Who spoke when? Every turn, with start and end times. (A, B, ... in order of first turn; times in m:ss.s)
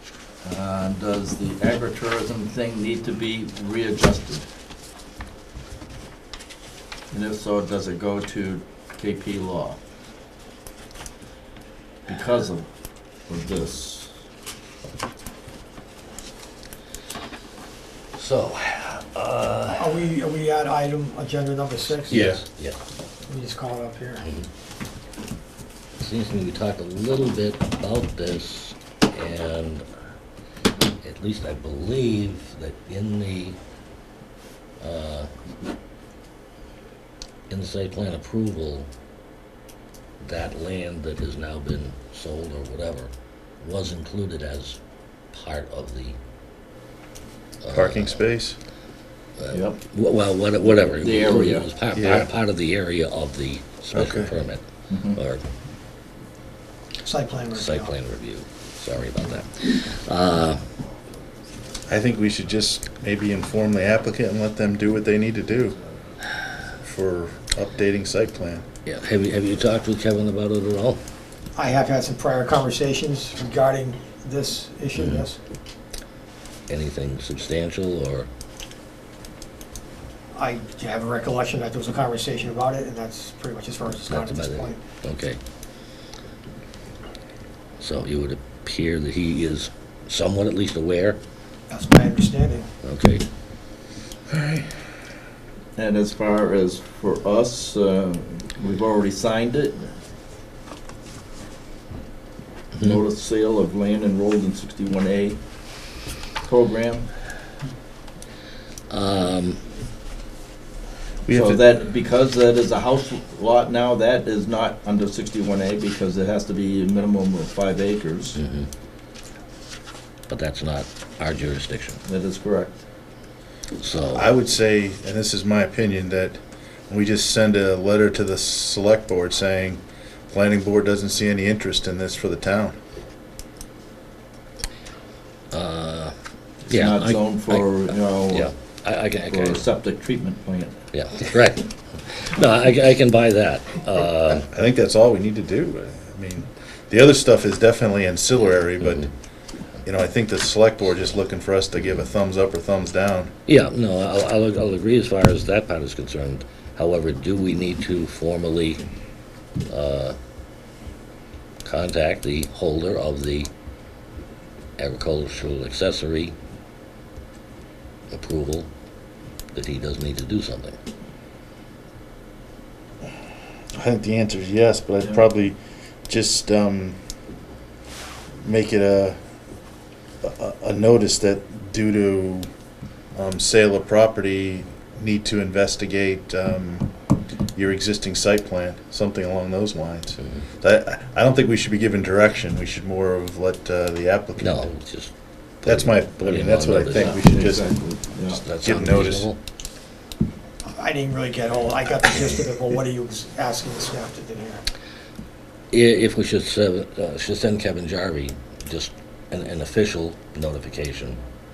0:00.4-0:04.5 A
0:07.1-0:09.8 A
0:12.1-0:12.7 A
0:13.2-0:14.1 A
0:18.2-0:20.2 B
0:19.8-0:22.3 C
0:21.9-0:22.8 B
0:22.1-0:22.4 D
0:23.3-0:24.2 C
0:24.2-0:24.5 B
0:26.0-0:29.8 B
0:31.0-0:33.6 B
0:34.8-0:35.3 B
0:37.5-0:38.9 B
0:40.2-0:44.8 B
0:45.3-0:46.2 B
0:47.6-0:48.2 B
0:47.7-0:48.6 D
0:49.4-0:55.4 B
0:49.5-0:49.8 A
0:51.0-0:51.7 A
0:51.9-0:52.3 D
0:53.9-0:54.3 D
0:54.9-0:55.2 A
0:57.0-0:57.9 C
0:57.5-1:00.6 B
1:01.9-1:05.8 D
1:06.8-1:08.6 D
1:08.8-1:11.0 B
1:11.6-1:15.4 C
1:15.0-1:15.2 B
1:16.7-1:18.3 B
1:20.3-1:24.8 C
1:24.1-1:25.4 B
1:27.8-1:31.2 B
1:31.7-1:32.7 C
1:32.8-1:33.2 B
1:34.3-1:34.7 D
1:35.8-1:39.9 A
1:42.8-1:45.4 A
1:46.4-1:47.1 A
1:48.9-1:49.6 B
1:51.3-1:51.6 D
1:51.3-1:58.4 A
1:58.4-1:58.7 B
2:00.3-2:02.0 B
2:02.1-2:02.8 A
2:03.8-2:04.3 B
2:04.1-2:12.8 D
2:15.5-2:16.1 B
2:16.7-2:18.5 A
2:16.7-2:19.6 B
2:19.3-2:20.8 A
2:20.9-2:24.5 B
2:24.5-2:29.1 D
2:29.8-2:33.3 D
2:33.5-2:38.8 B
2:39.7-2:40.2 B
2:41.6-2:43.5 B
2:44.8-2:46.4 B
2:48.1-2:48.7 B
2:49.5-2:50.8 B
2:53.7-2:55.6 D
2:56.1-2:57.0 D
2:58.4-2:59.2 D
3:00.2-3:02.5 D
3:03.1-3:06.9 D
3:07.6-3:14.6 D
3:14.4-3:17.2 B
3:15.6-3:19.3 D
3:16.9-3:18.4 A
3:18.3-3:19.4 B
3:20.6-3:24.6 C
3:25.7-3:31.2 B